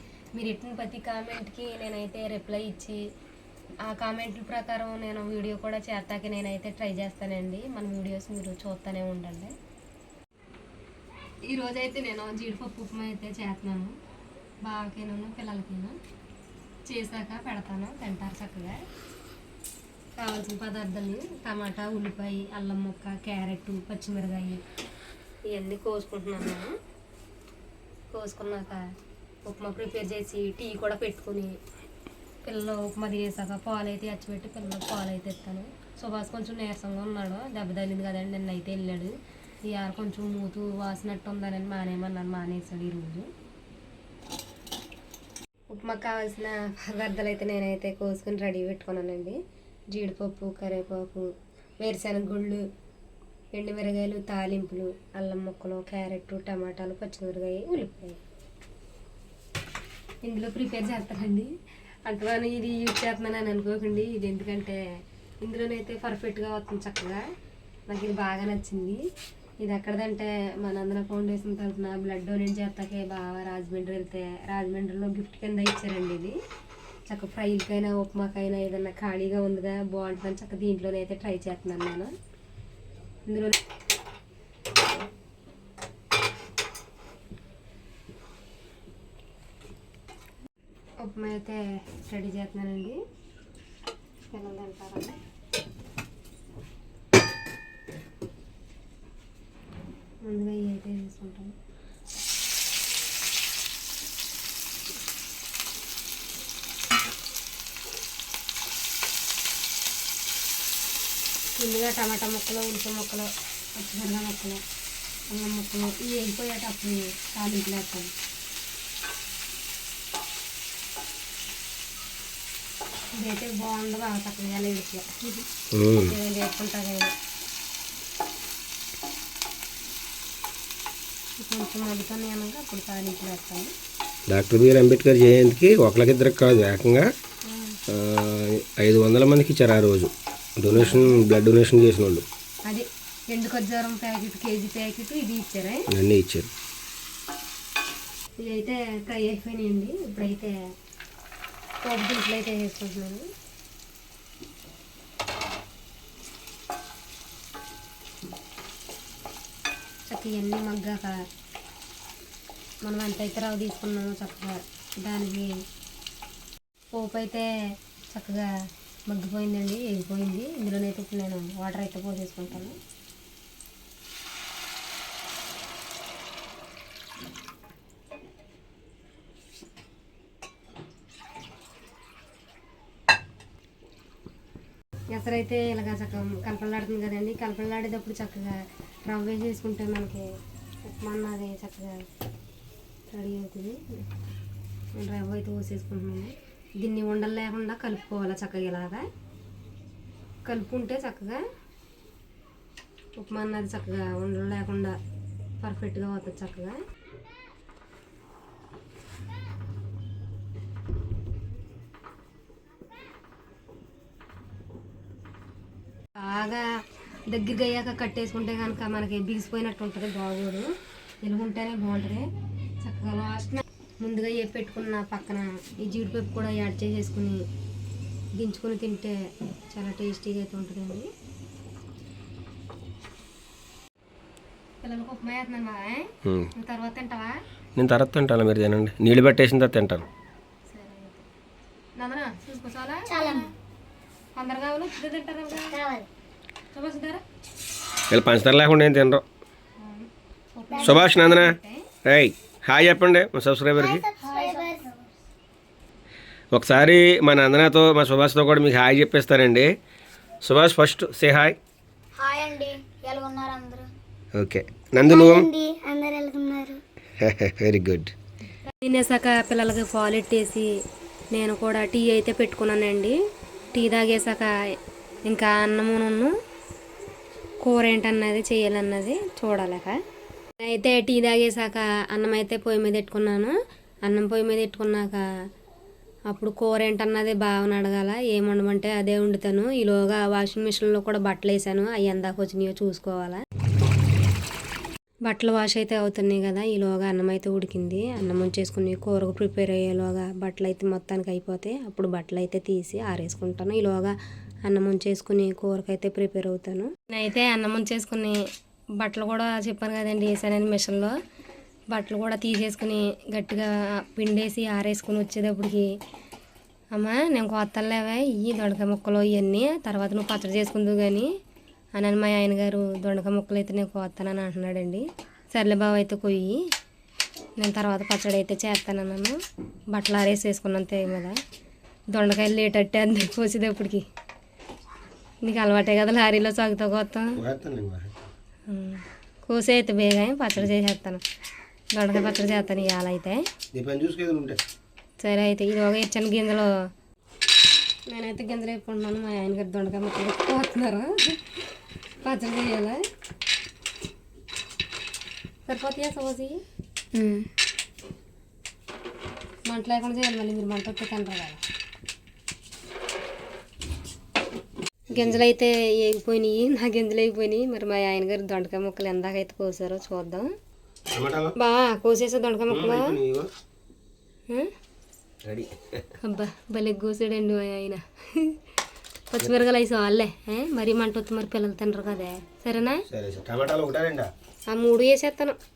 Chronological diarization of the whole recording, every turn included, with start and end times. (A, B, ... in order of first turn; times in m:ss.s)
0:00.4-0:03.0 A
0:03.8-0:09.5 A
0:11.5-0:13.9 A
0:14.6-0:16.0 A
0:16.8-0:18.8 A
0:20.2-0:24.6 A
0:25.5-0:26.7 A
0:28.1-0:28.8 A
0:29.5-0:31.6 A
0:32.4-0:39.1 A
0:39.6-0:43.3 A
0:45.7-0:49.4 A
0:49.9-0:51.3 A
0:51.8-0:52.6 A
0:53.5-0:58.2 A
1:00.2-1:01.5 A
1:02.1-1:04.8 A
1:05.4-1:07.2 A
1:07.9-1:09.0 A
1:09.6-1:16.4 A
1:17.1-1:22.1 A
1:23.3-1:23.6 A
1:31.0-1:33.0 A
1:34.3-1:35.2 A
1:40.2-1:41.6 A
1:51.6-1:54.6 A
1:55.3-1:58.1 A
2:03.2-2:05.5 A
2:05.7-2:06.2 B
2:06.1-2:07.1 A
2:11.4-2:13.7 A
2:14.3-2:17.1 B
2:17.4-2:17.8 A
2:17.9-2:22.2 B
2:20.7-2:21.2 A
2:22.7-2:25.9 A
2:25.9-2:26.5 B
2:28.4-2:30.5 A
2:31.8-2:33.3 A
2:40.1-2:41.2 A
2:42.8-2:45.5 A
2:46.9-2:47.5 A
2:48.1-2:48.5 A
2:49.1-2:52.8 A
3:05.1-3:10.2 A
3:10.8-3:12.1 A
3:13.1-3:14.1 A
3:14.9-3:19.1 A
3:20.4-3:21.4 A
3:23.2-3:25.0 A
3:25.6-3:26.8 A
3:36.2-3:36.6 A
3:37.3-3:40.7 A
3:41.2-3:42.2 A
3:42.8-3:47.4 A
3:48.4-3:49.2 A
3:49.7-3:51.1 A
3:54.8-3:57.4 A
3:56.2-3:56.5 B
3:57.8-4:00.1 B
4:00.7-4:01.2 A
4:02.0-4:03.5 A
4:03.1-4:03.5 C
4:04.4-4:05.8 A
4:05.7-4:06.1 C
4:06.7-4:07.2 A
4:08.1-4:09.2 B
4:09.8-4:11.8 A
4:10.8-4:14.1 B
4:13.8-4:15.1 C
4:14.2-4:14.7 A
4:16.5-4:19.7 B
4:20.4-4:21.6 B
4:22.2-4:23.9 C
4:24.4-4:25.5 B
4:25.1-4:26.8 C
4:27.2-4:28.1 B
4:28.8-4:30.7 A
4:31.3-4:33.2 A
4:33.7-4:34.5 A
4:35.3-4:36.3 A
4:37.6-4:39.9 A
4:40.6-4:45.2 A
4:46.3-4:53.4 A
4:55.3-5:04.2 A
5:04.7-5:08.4 A
5:09.0-5:11.2 A
5:11.9-5:15.9 A
5:16.9-5:21.3 A
5:22.0-5:26.6 A
5:27.6-5:29.4 A
5:29.9-5:31.4 A
5:32.1-5:34.0 A
5:35.4-5:37.4 A
5:37.4-5:38.1 B
5:38.7-5:41.2 A
5:42.0-5:43.4 A
5:43.7-5:44.6 B
5:45.2-5:46.7 A
5:48.1-5:51.4 A
5:52.2-5:53.0 A
5:55.7-5:56.6 A
5:57.2-5:57.4 A
5:59.7-6:01.6 A
6:05.1-6:10.5 A
6:05.1-6:05.4 B
6:11.1-6:11.6 B
6:11.6-6:13.1 A
6:12.7-6:13.5 B
6:15.4-6:16.0 B
6:16.2-6:18.6 A
6:19.3-6:23.0 A
6:23.1-6:24.3 B
6:24.7-6:25.6 A